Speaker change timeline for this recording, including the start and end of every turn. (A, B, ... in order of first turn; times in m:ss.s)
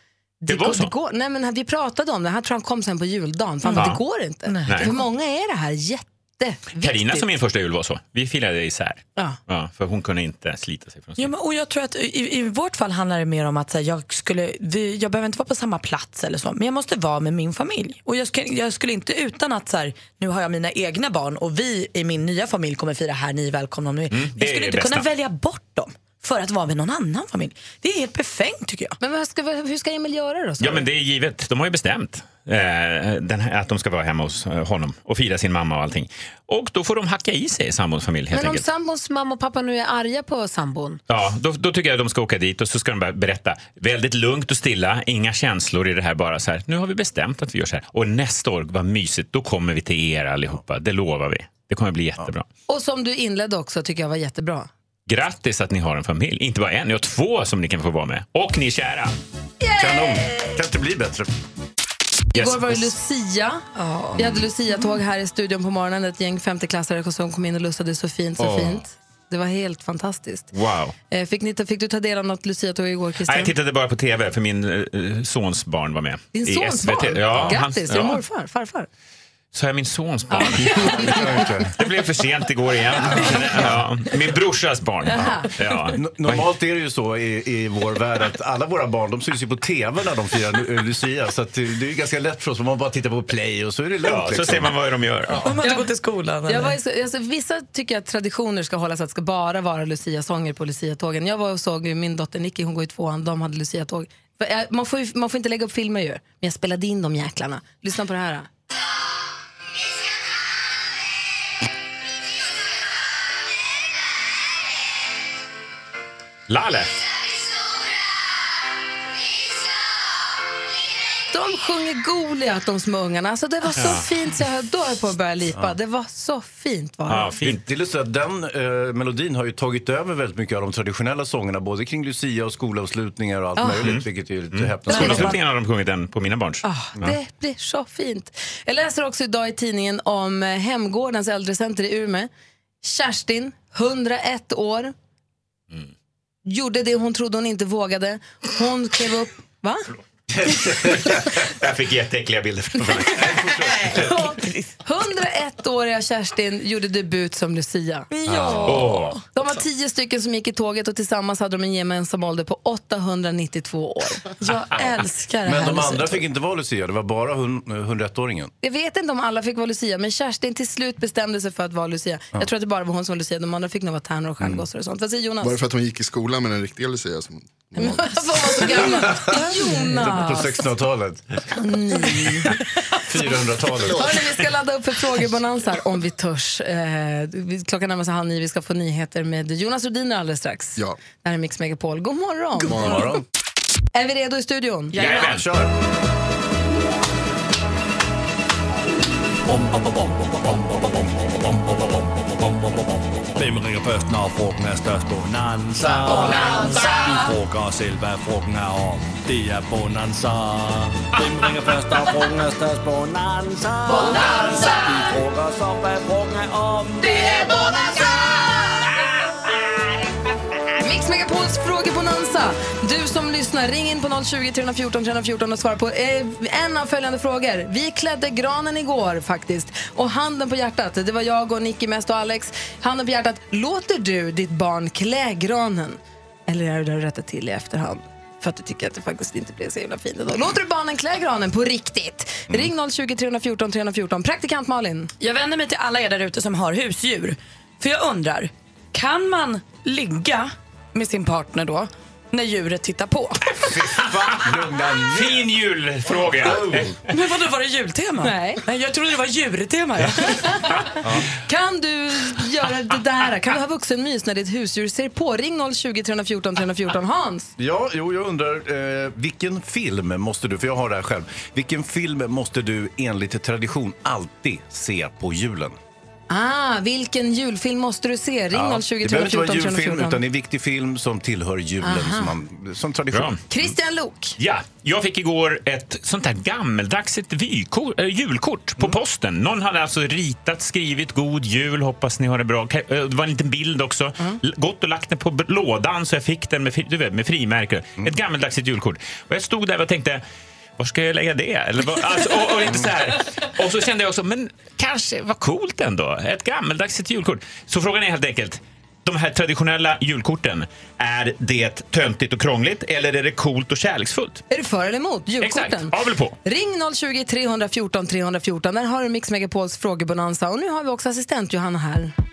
0:00.4-0:07.3 A
0:00.5-0:00.9 B
0:03.6-0:05.0 C
0:03.8-0:04.0 B
0:04.6-0:04.9 B
0:06.8-0:11.3 B
0:11.2-0:29.0 C
0:24.1-0:25.1 B
0:29.0-0:30.9 A
0:30.6-0:38.7 B
0:38.3-0:41.0 A
0:41.1-0:52.5 B
0:52.7-0:54.7 A
0:55.1-0:59.1 B
0:59.6-1:00.6 A
0:59.8-1:01.3 D
1:02.3-1:02.9 B
1:02.4-1:10.5 A
1:03.8-1:04.1 C
1:08.4-1:08.8 B
1:10.5-1:10.9 B
1:11.1-1:13.5 A
1:13.2-1:18.2 B
1:16.3-1:18.9 A
1:19.5-1:21.1 B
1:20.3-1:21.4 A
1:20.7-1:21.7 D
1:21.8-1:26.5 B
1:23.3-1:23.7 D
1:25.1-1:25.5 A
1:26.0-1:34.7 D
1:34.0-1:35.5 B
1:35.4-1:36.8 C
1:35.6-1:35.9 A
1:36.5-1:48.5 A
1:56.5-1:57.0 B
2:01.3-2:07.4 A
2:03.8-2:04.0 B
2:07.1-2:07.6 B
2:07.4-2:15.4 D
2:13.7-2:17.1 B
2:14.9-2:15.4 C
2:16.6-2:22.3 A
2:22.8-2:24.9 A
2:26.5-2:29.9 A
2:30.3-2:31.3 D
2:30.9-2:33.5 B
2:33.2-2:34.1 D
2:33.9-2:34.3 A
2:33.9-2:34.7 C
2:34.8-2:38.1 A
2:38.1-2:39.2 C
2:38.3-2:38.8 D
2:38.6-2:39.2 B
2:39.3-2:44.2 A
2:44.3-2:46.2 C
2:45.5-2:48.5 D
2:48.6-2:55.6 A
2:54.4-2:54.6 D
2:55.4-2:58.6 E
2:57.8-3:00.7 A
2:58.7-3:01.2 D
3:01.6-3:02.6 A
3:02.9-3:04.2 D
3:03.8-3:13.1 A
3:12.6-3:13.2 D
3:13.9-3:15.0 A
3:15.0-3:15.5 B
3:15.0-3:15.7 D
3:23.4-3:37.2 F
3:34.1-3:34.7 A
3:40.8-4:05.1 A
4:05.2-4:13.7 C
4:13.7-4:15.5 D
4:13.9-4:14.4 B
4:15.0-4:17.0 B
4:16.1-4:16.9 D
4:17.1-4:20.6 C
4:18.2-4:18.6 A
4:21.5-4:27.5 A
4:27.6-4:35.8 D
4:36.3-4:40.2 A
4:38.6-4:43.3 D
4:41.8-4:42.3 A
4:43.1-4:43.4 B
4:43.5-4:44.4 A
4:44.4-5:00.2 B
5:00.8-5:14.4 B
5:14.5-5:22.1 A
5:15.4-5:16.4 B